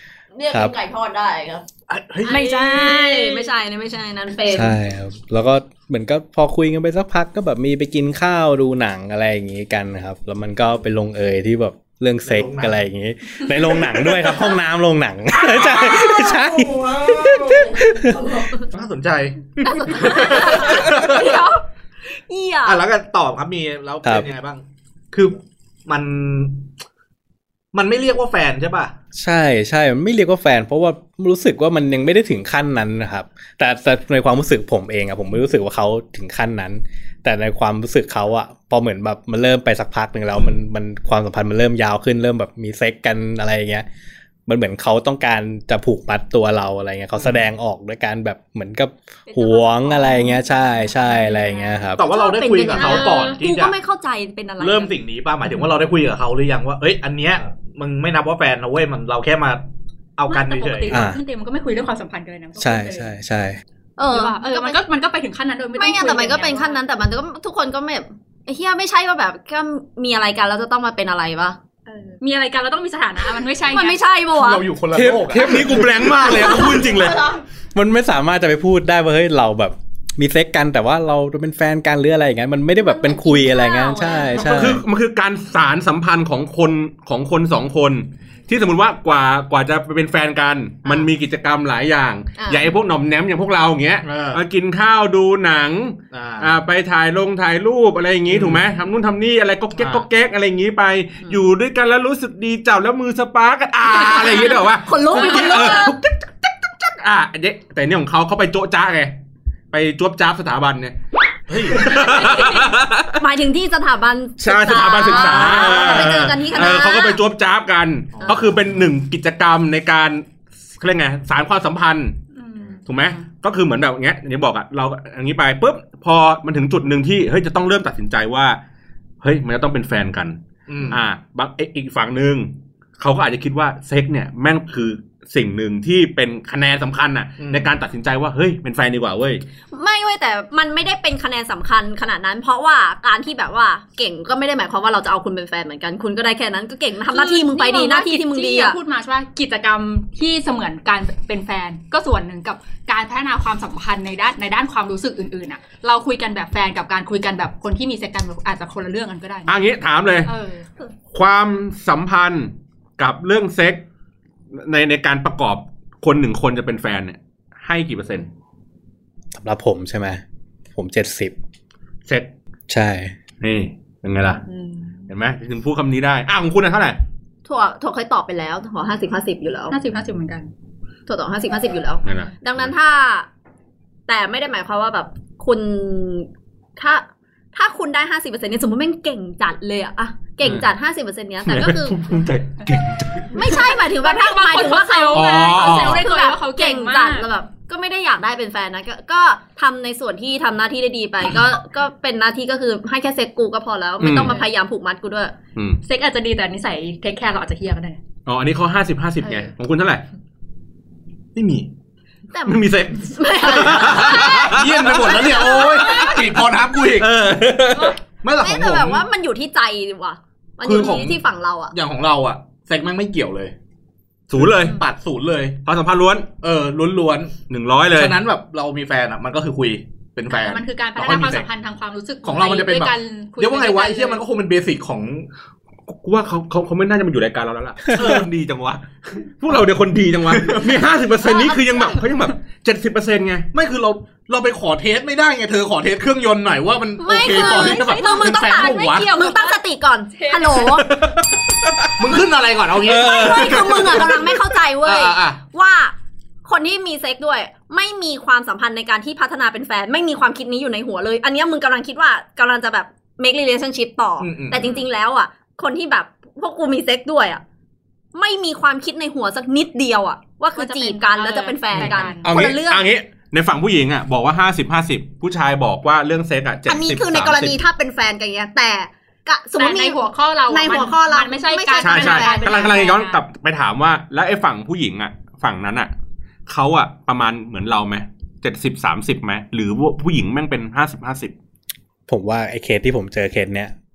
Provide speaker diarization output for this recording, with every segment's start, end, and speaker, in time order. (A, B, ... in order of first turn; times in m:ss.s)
0:00.3-0:01.7 A
0:01.9-0:02.4 B
0:02.2-0:03.5 C
0:02.2-0:04.8 A
0:04.5-0:18.3 D
0:12.2-0:12.8 B
0:15.5-0:16.2 B
0:16.8-0:17.7 B
0:18.6-0:21.5 B
0:19.6-0:21.6 A
0:22.2-0:22.8 A
0:22.6-0:26.6 B
0:27.7-0:28.9 B
0:29.2-0:43.9 D
0:44.5-0:52.0 D
0:49.3-0:50.3 A
0:49.3-0:51.8 C
0:52.0-0:53.8 B
0:52.0-0:55.0 A
0:52.7-0:53.4 C
0:54.6-0:59.6 B
1:00.2-1:01.0 B
1:00.3-1:03.1 C
1:00.9-1:01.2 D
1:02.6-1:03.6 D
1:04.0-1:04.8 A
1:04.1-1:06.8 C
1:05.8-1:11.6 A
1:11.9-1:14.0 C
1:13.7-1:14.7 A
1:14.3-1:16.1 B
1:14.9-1:17.3 E
1:16.3-1:17.4 A
1:17.7-1:24.8 D
1:22.8-1:24.7 A
1:24.4-1:49.2 E
1:32.4-1:32.6 A
1:34.0-1:34.4 B
1:36.1-1:36.6 B
1:38.3-1:38.6 B
1:39.8-1:40.1 B
1:43.9-1:46.0 A
1:45.2-1:45.8 C
1:49.7-1:51.0 E
1:51.5-1:52.2 B
1:51.6-1:53.2 E
1:53.2-1:57.2 A
1:54.4-2:00.2 E
1:55.1-1:56.3 B
1:58.2-1:58.6 B
2:00.8-2:02.2 E
2:02.4-2:03.2 C
2:02.9-2:08.6 E
2:09.2-2:19.4 E
2:10.7-2:11.0 B
2:17.4-2:17.7 B
2:19.7-2:28.8 A
2:27.1-2:39.6 C
2:39.5-2:40.3 E
2:40.2-2:40.7 C
2:41.1-2:43.8 E
2:44.5-2:48.3 E
2:49.3-2:50.2 D
2:50.8-2:51.4 D
2:52.7-2:53.1 D
2:53.4-2:54.4 E
2:54.5-2:55.1 C
2:55.1-2:57.0 E
2:57.5-2:59.8 A
2:59.7-3:00.5 C
3:01.1-3:03.3 A
3:02.0-3:02.7 E
3:04.1-3:12.0 A
3:10.4-3:10.7 E
3:11.4-3:13.6 E
3:13.3-3:25.4 A
3:13.4-3:17.3 C
3:15.1-3:16.1 E
3:24.0-3:24.4 E
3:24.2-3:24.4 C
3:25.8-3:28.0 C
3:28.2-3:30.0 E
3:31.4-3:31.7 B
3:32.3-3:36.1 A
3:32.4-3:36.1 E
3:33.6-3:37.1 B
3:36.9-3:38.0 E
3:38.2-3:39.0 B
3:38.4-3:41.8 A
3:40.6-3:41.2 B
3:41.7-3:43.5 B
3:44.3-3:44.8 E
3:44.4-3:45.6 B
3:45.6-3:46.3 E
3:46.4-3:47.4 B
3:47.5-3:48.2 E
3:47.9-3:51.5 B
3:50.3-3:54.2 C
3:52.2-3:55.3 B
3:55.9-4:03.5 E
3:58.0-3:58.3 B
4:00.3-4:00.8 B
4:03.5-4:09.1 B
4:07.0-4:10.9 A
4:07.8-4:09.6 C
4:10.1-4:10.8 C
4:10.7-4:12.1 E
4:12.0-4:15.4 B
4:12.8-4:14.1 E
4:12.9-4:27.4 A
4:24.2-4:24.6 B
4:24.6-4:24.8 C
4:28.1-4:32.9 A
4:30.6-4:32.4 C
4:32.2-4:37.6 E
4:36.7-4:42.8 A
4:39.6-4:43.2 C
4:41.8-4:45.9 E
4:46.5-4:51.3 E
4:52.1-4:53.7 D